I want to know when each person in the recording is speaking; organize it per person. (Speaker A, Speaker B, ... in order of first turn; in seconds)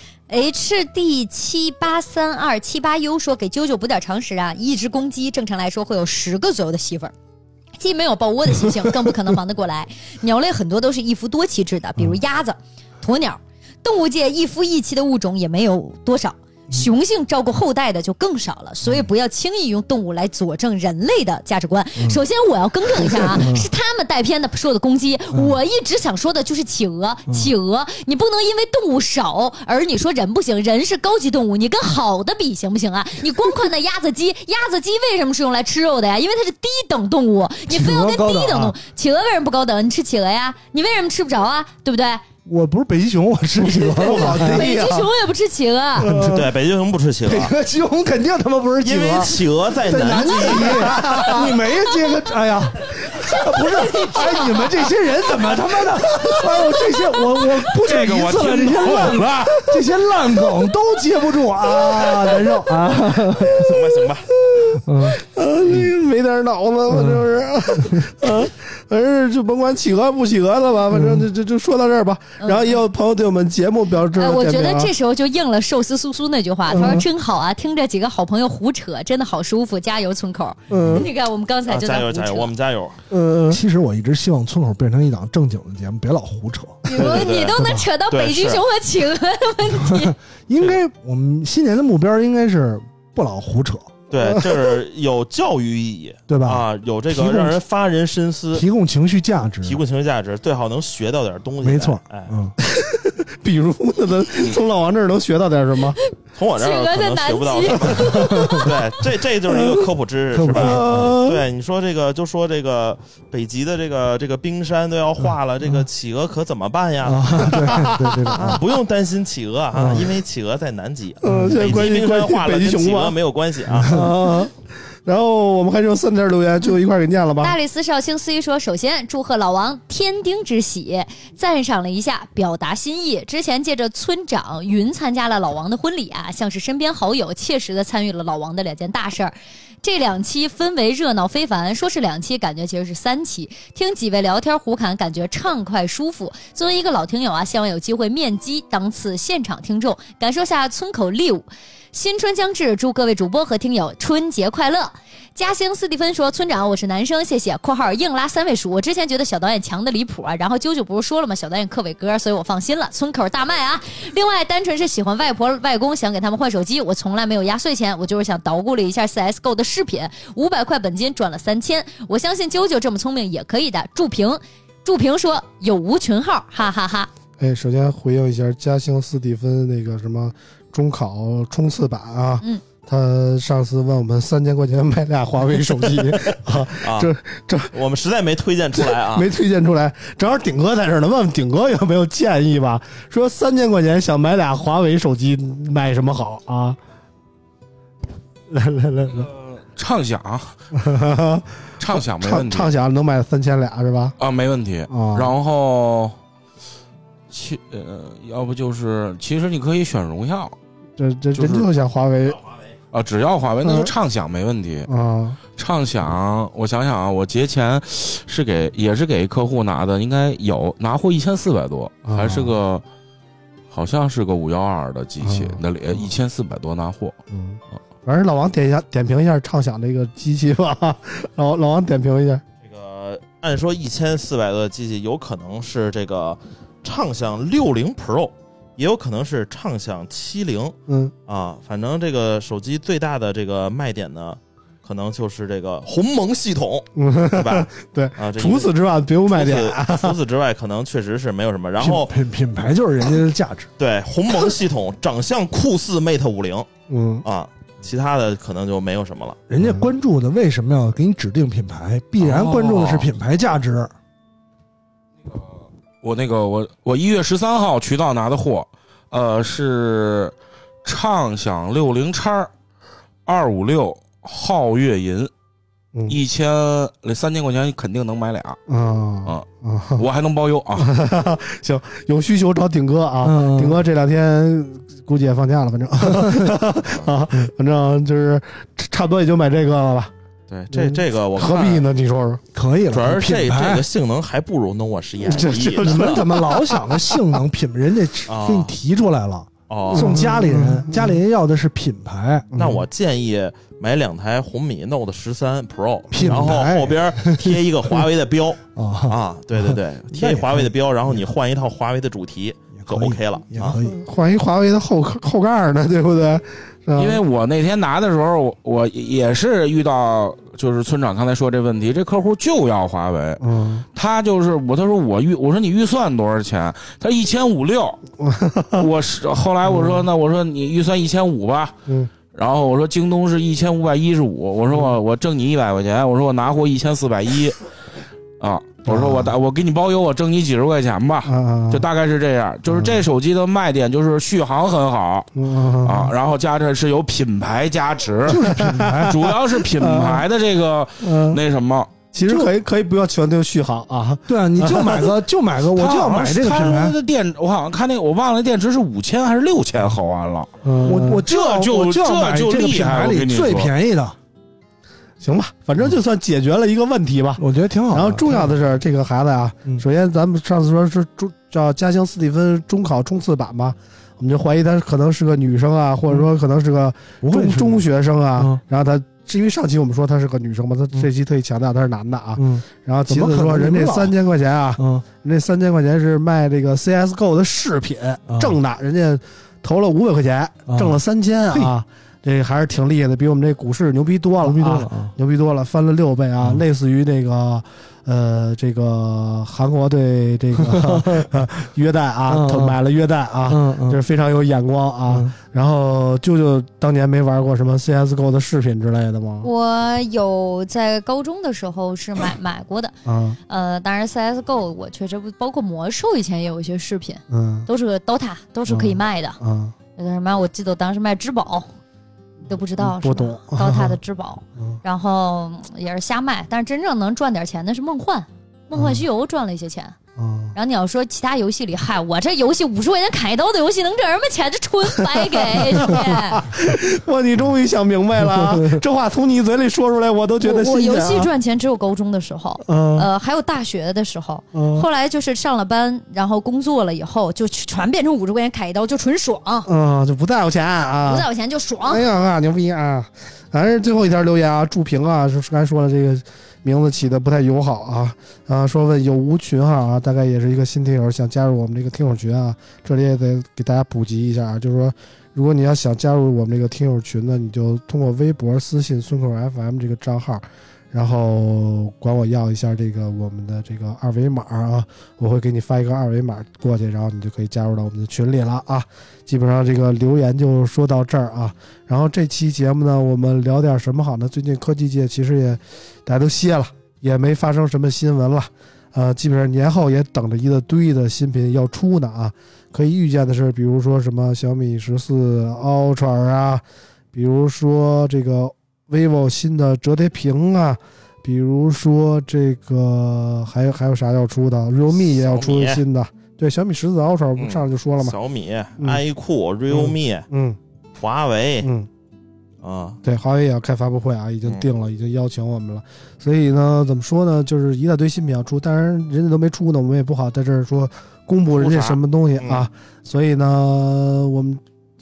Speaker A: 0.3-7.1, 7.8-42.2, 43.7-46.1, 53.2-54.9, 57.0-57.4, 72.4-72.8, 74.2-82.5, 86.9-90.2, 106.6-108.7, 127.4-177.1, 409.4-412.9, 413.5-419.4, 420.0-421.7, 422.5-430.0, 430.5-436.5, 440.4-449.7, 451.1-452.1
Speaker B: 23.0-23.7, 37.7-38.8, 42.5-44.7, 46.0-46.5, 47.3-63.8, 64.8-65.9, 66.9-67.2, 67.8-68.1, 70.9-71.2, 76.7-77.0, 80.7-81.1, 83.5-86.9, 89.9-93.9, 96.3-97.6, 98.5-99.8, 101.6-102.5, 108.0-108.6, 110.3-111.2, 115.2-115.8, 117.0-118.6, 119.7-120.2, 121.2-121.6, 123.8-124.1, 251.8-253.7, 259.5-263.9, 283.2-283.8, 286.1-286.5, 292.5-293.9, 295.8-302.5, 306.1-308.1, 308.8-311.2, 312.8-314.0, 348.3-349.3, 352.2-352.5, 354.3-357.0, 360.8-364.2, 367.4-368.5, 377.2-377.9, 382.4-384.1, 384.8-385.1, 388.3-388.6, 390.7-391.0, 394.4-395.1, 400.6-401.3, 402.3-402.8, 403.5-404.0, 438.4-438.8
Speaker C: 44.0-45.1, 46.0-46.5, 50.5-51.5, 61.7-63.4, 64.5-74.9, 76.7-77.0, 80.7-81.1, 83.1-83.6, 94.2-94.6, 102.7-106.0, 110.5-111.5, 117.6-118.6, 121.2-123.2, 123.8-127.6, 177.4-187.7, 188.8-196.8, 198.5-199.3, 200.8-204.2, 204.9-205.3, 211.0-212.4, 213.6-213.9, 214.9-215.4, 222.1-222.6, 225.2-225.6, 227.3-232.4, 240.9-241.1, 247.0-250.2, 256.9-257.2, 259.6-259.9, 278.7-280.1, 280.8-290.1, 290.7-292.4, 295.2-297.4, 299.9-301.2, 302.5-302.8, 306.2-306.5, 313.8-317.2, 323.4-323.9, 328.2-328.9, 329.6-330.1, 338.9-339.3, 341.2-341.9, 342.7-343.0, 345.4-346.1, 348.3-350.2, 351.0-351.4, 352.1-355.2, 360.6-361.2, 365.2-409.5, 413.1-413.4, 417.3-417.7, 418.7-419.8, 422.8-424.0, 428.7-429.0, 430.2-430.6, 434.9-441.3, 442.6-443.1, 444.5-444.9, 449.7-451.3, 451.9-508.2, 509.7-510.6, 511.6-511.9, 513.0-524.6
Speaker D: 46.3-47.5, 48.8-51.4, 63.4-64.3, 81.7-83.0, 87.0-87.6, 88.1-88.6, 94.1-98.7, 99.6-102.3, 106.3-124.0, 186.8-187.1, 187.7-189.3, 232.6-240.8, 241.3-248.7, 249.3-252.1, 253.8-256.7, 257.2-259.4, 290.5-291.9, 292.9-296.2, 298.3-298.8, 299.7-300.3, 302.6-313.8, 505.0-505.8, 507.4-510.3, 511.0-511.7, 512.6-513.0, 521.6-522.7
Speaker E: 57.8-59.7, 199.1-200.6, 201.8-202.7, 204.2-206.2, 207.3-210.6, 211.3-211.7, 212.9-214.9, 215.6-222.8, 223.7-227.2, 262.2-263.1, 265.2-272.5, 273.3-275.3, 276.1-278.6, 279.3-280.9, 317.0-323.4, 323.9-328.0, 328.8-331.8, 332.3-337.6, 338.4-345.3, 345.8-348.5, 349.1-352.0, 355.7-360.5, 361.2-363.7